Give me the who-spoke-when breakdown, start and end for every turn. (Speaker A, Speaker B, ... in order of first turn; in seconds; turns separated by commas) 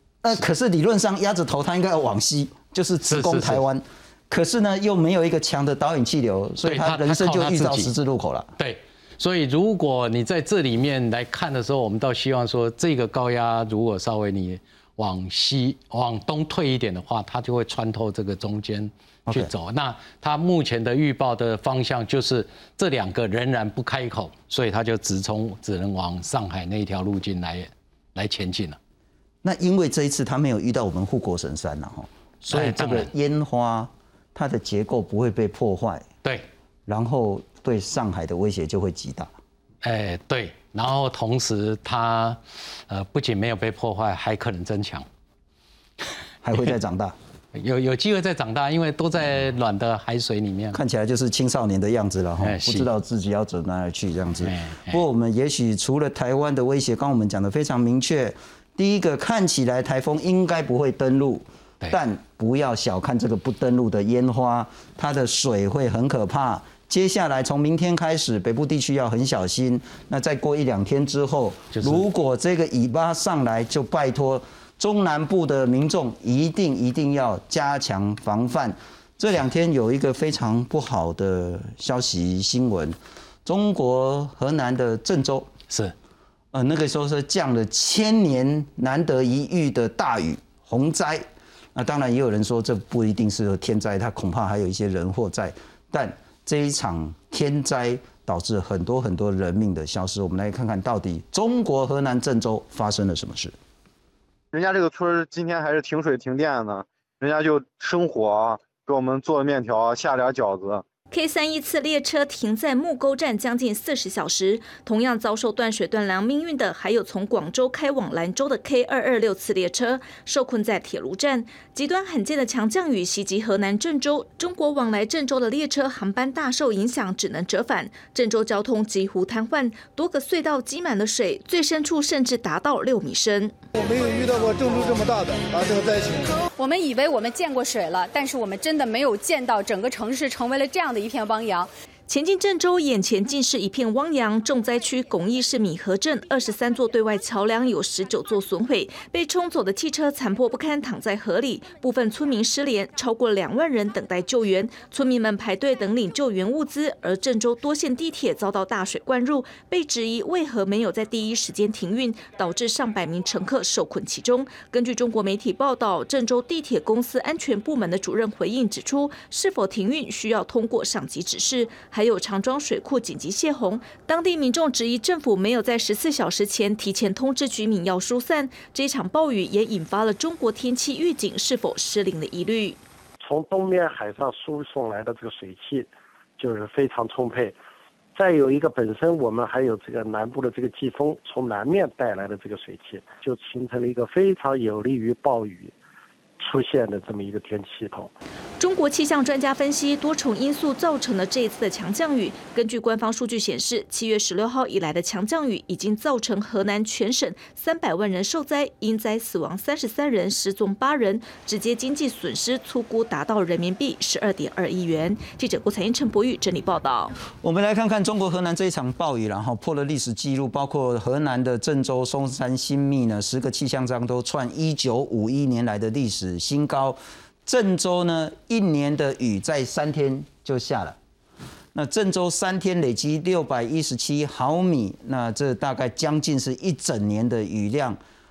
Speaker A: 0.2-8.5, Speaker B: 3.1-3.6, Speaker B: 6.6-7.9, Speaker B: 8.6-28.8, Speaker A: 29.4-36.0, Speaker B: 32.5-33.1, Speaker A: 36.9-39.3, Speaker B: 39.8-45.0, Speaker A: 46.4-47.1, Speaker B: 47.5-50.8, Speaker A: 50.7-85.5, Speaker B: 52.4-52.9, Speaker B: 54.4-55.0, Speaker B: 71.7-72.0, Speaker A: 86.5-103.5, Speaker C: 104.5-110.8, Speaker D: 111.1-133.5, Speaker E: 133.8-136.2, Speaker F: 136.6-141.7, Speaker D: 142.1-182.8, Speaker G: 183.2-187.6, Speaker G: 188.1-195.7, Speaker G: 196.4-198.1, Speaker D: 198.6-217.1, Speaker A: 217.4-231.0, Speaker A: 231.7-238.0